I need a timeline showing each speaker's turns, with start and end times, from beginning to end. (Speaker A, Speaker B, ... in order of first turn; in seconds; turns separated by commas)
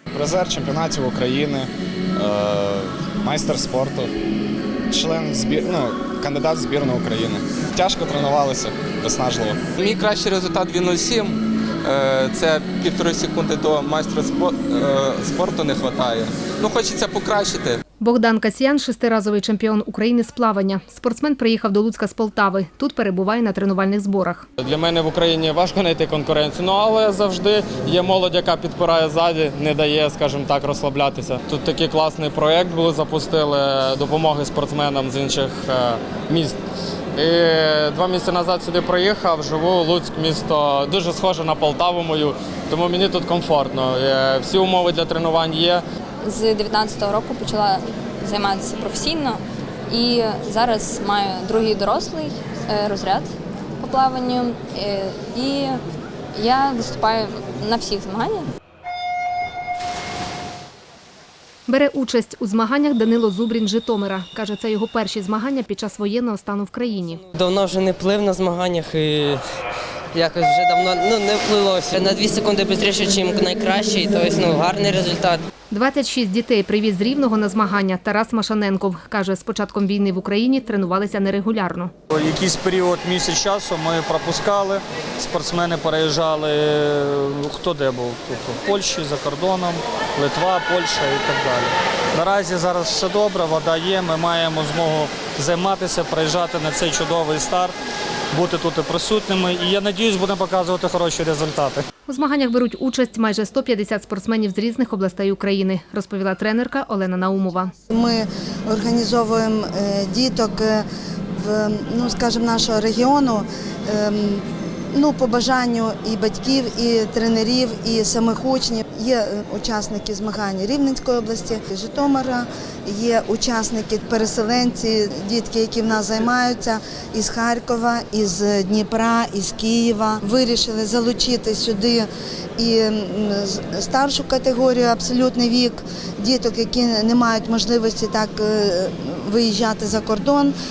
Speaker A: 0.1-4.1, Speaker A: 4.9-9.6, Speaker B: 9.8-17.8, Speaker C: 18.0-24.4, Speaker D: 24.6-36.6, Speaker D: 37.1-45.8, Speaker E: 46.2-55.8, Speaker E: 56.3-58.5, Speaker C: 61.7-67.2, Speaker F: 67.2-69.4, Speaker F: 70.1-75.4, Speaker C: 75.7-81.9, Speaker G: 82.1-97.7, Speaker G: 98.3-101.8, Speaker C: 102.1-107.7, Speaker H: 107.9-140.5